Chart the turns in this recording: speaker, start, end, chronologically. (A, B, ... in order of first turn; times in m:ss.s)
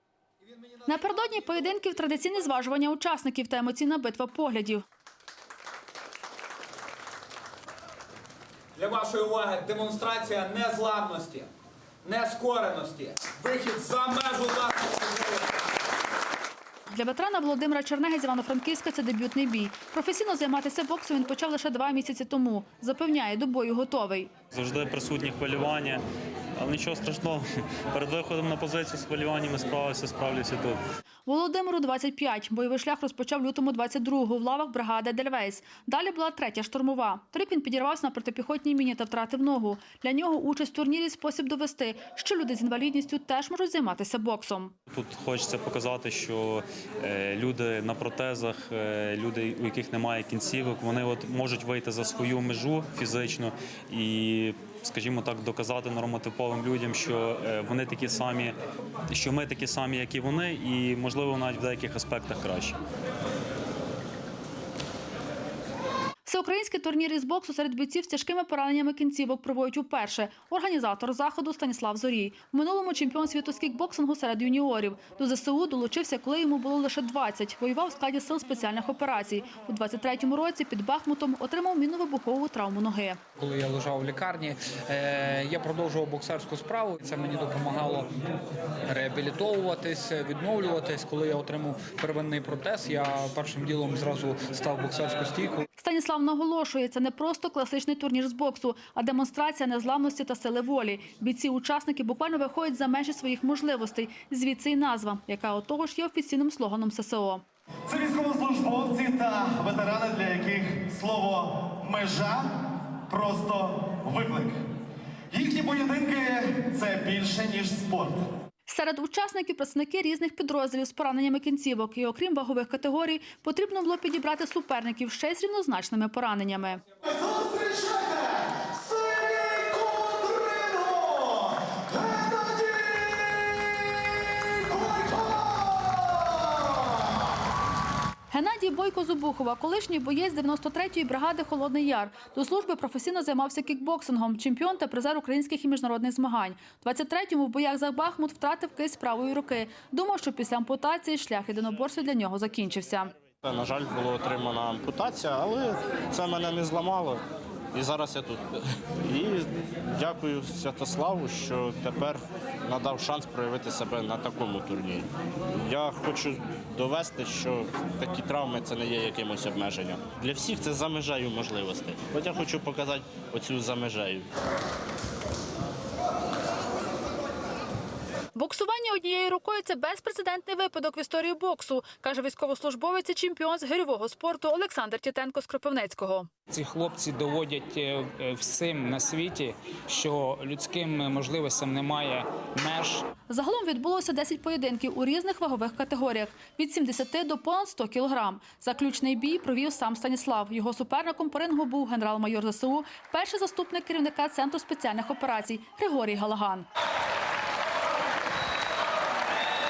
0:00.9-0:04.8 A
0:08.8-0:11.5 B
0:12.0-0:15.4 B
0:16.9-0:24.3 A
0:24.5-0:26.0 C
0:26.6-0:30.8 C
0:31.2-0:44.7 A
0:44.9-0:58.6 C
0:59.1-1:02.8 C
1:06.2-1:23.2 A
1:23.4-1:28.1 D
1:28.8-1:35.6 D
1:35.8-1:47.4 A
1:47.9-1:52.5 E
1:53.1-1:54.6 E
1:55.3-1:58.2 E
1:58.7-2:06.8 A
2:07.1-2:16.6 E
2:18.3-2:33.1 A
2:33.4-2:54.3 F
2:58.3-3:06.3 A
3:06.5-3:13.0 G
3:06.5-3:07.8 D
3:08.5-3:12.1 D
3:13.3-3:26.7 A